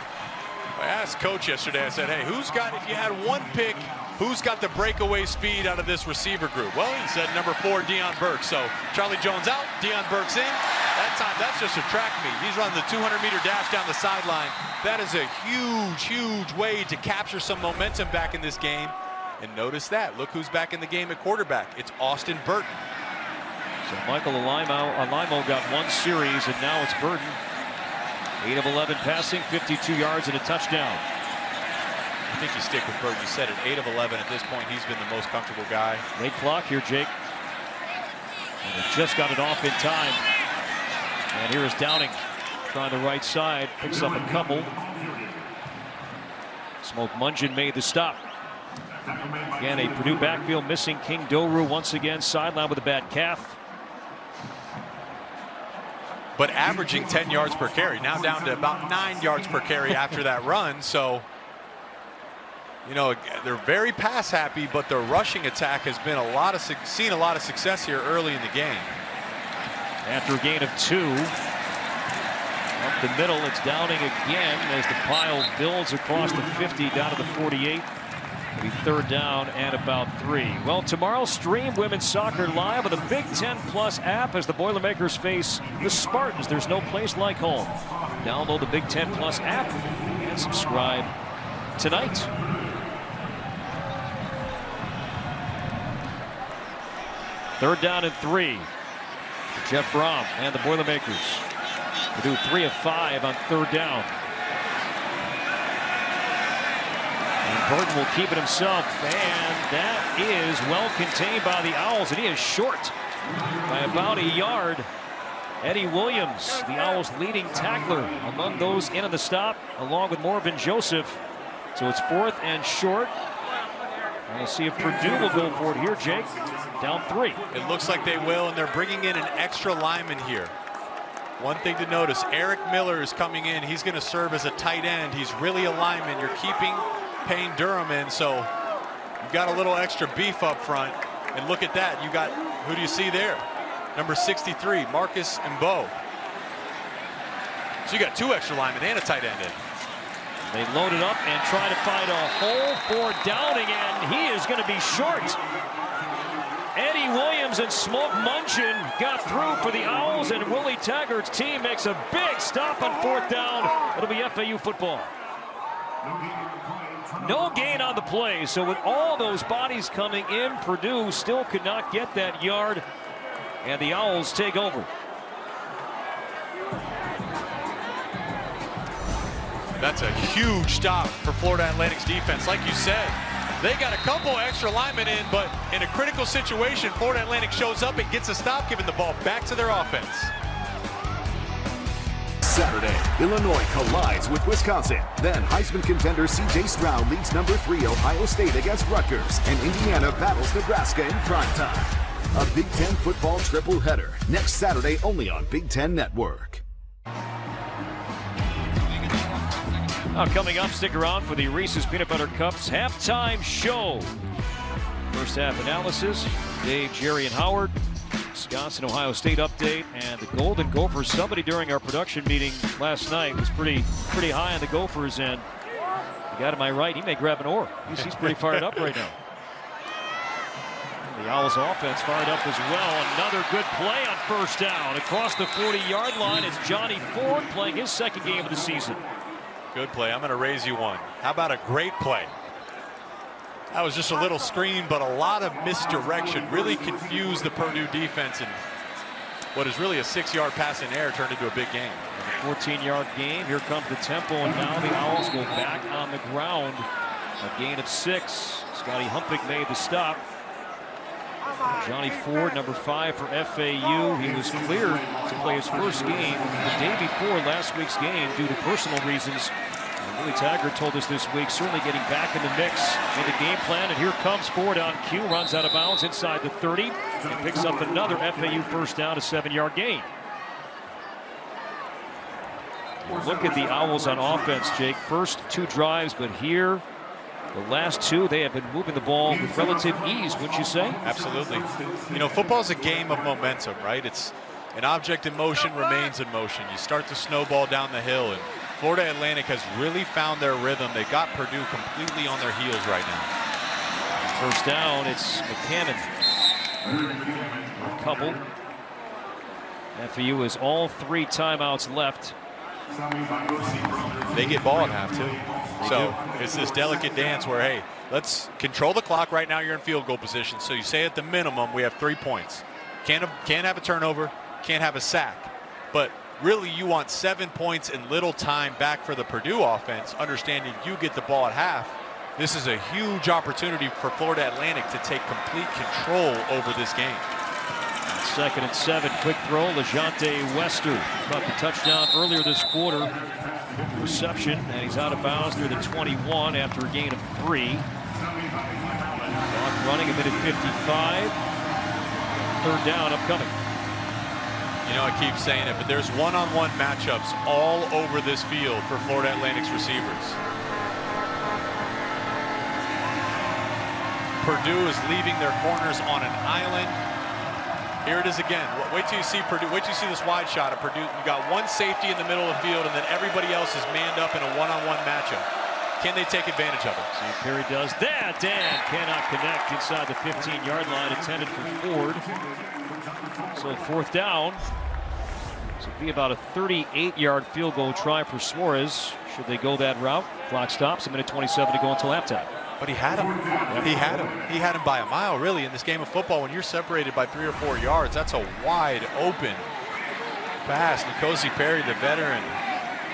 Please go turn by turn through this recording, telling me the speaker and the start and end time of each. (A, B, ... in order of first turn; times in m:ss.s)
0:00.8-0:22.8 A
0:23.8-0:27.4 B
0:28.4-0:31.0 B
0:32.3-0:36.0 A
0:36.2-0:37.1 B
0:38.6-0:40.2 B
0:41.3-0:44.8 B
0:46.8-0:48.2 B
0:49.6-0:53.6 B
0:56.4-1:01.3 A
1:02.8-1:09.0 A
1:10.0-1:11.3 B
1:12.8-1:17.9 B
1:18.6-1:31.1 B
1:31.8-1:32.3 B
1:37.6-1:38.7 B
1:39.5-1:41.5 B
1:42.1-1:44.1 B
1:47.4-1:52.9 B
1:53.6-1:54.9 B
1:55.6-2:01.2 B
2:01.8-2:03.1 B
2:04.3-2:07.4 B
2:07.5-2:10.5 A
2:11.4-2:18.5 A
2:19.2-2:26.0 A
2:27.8-2:29.6 A
2:30.5-2:35.4 B
2:36.8-2:45.1 B
2:47.2-2:52.8 B
2:53.6-2:54.9 B
2:59.8-3:10.3 A
3:12.4-3:26.6 C
3:30.1-3:34.1 B
3:35.1-3:37.7 B
3:38.3-3:45.5 B
3:46.3-3:49.2 B
3:47.9-3:49.0 A
3:51.0-3:59.0 B
3:59.7-4:02.3 A
4:03.7-4:08.6 A
4:09.5-4:12.1 A
4:12.1-4:16.9 B
4:17.4-4:20.2 B
4:21.7-4:40.1 B
4:43.0-4:46.8 B
4:47.5-4:51.0 B
4:51.0-5:03.3 A
5:04.2-5:06.1 B
5:07.7-5:08.4 B
5:10.0-5:12.4 B
5:14.3-5:37.3 A
5:15.8-5:16.2 B
5:38.1-5:43.2 B
5:43.8-5:47.9 B
5:49.3-5:51.4 B
5:52.6-5:53.5 B
5:54.8-6:00.4 A
6:04.4-6:07.0 A
6:08.0-6:15.5 A
6:16.0-6:17.1 A
6:17.1-6:22.3 B
6:23.5-6:24.6 B
6:25.8-6:32.5 B
6:32.8-6:39.7 A
6:33.7-6:34.0 B
6:40.6-6:42.6 A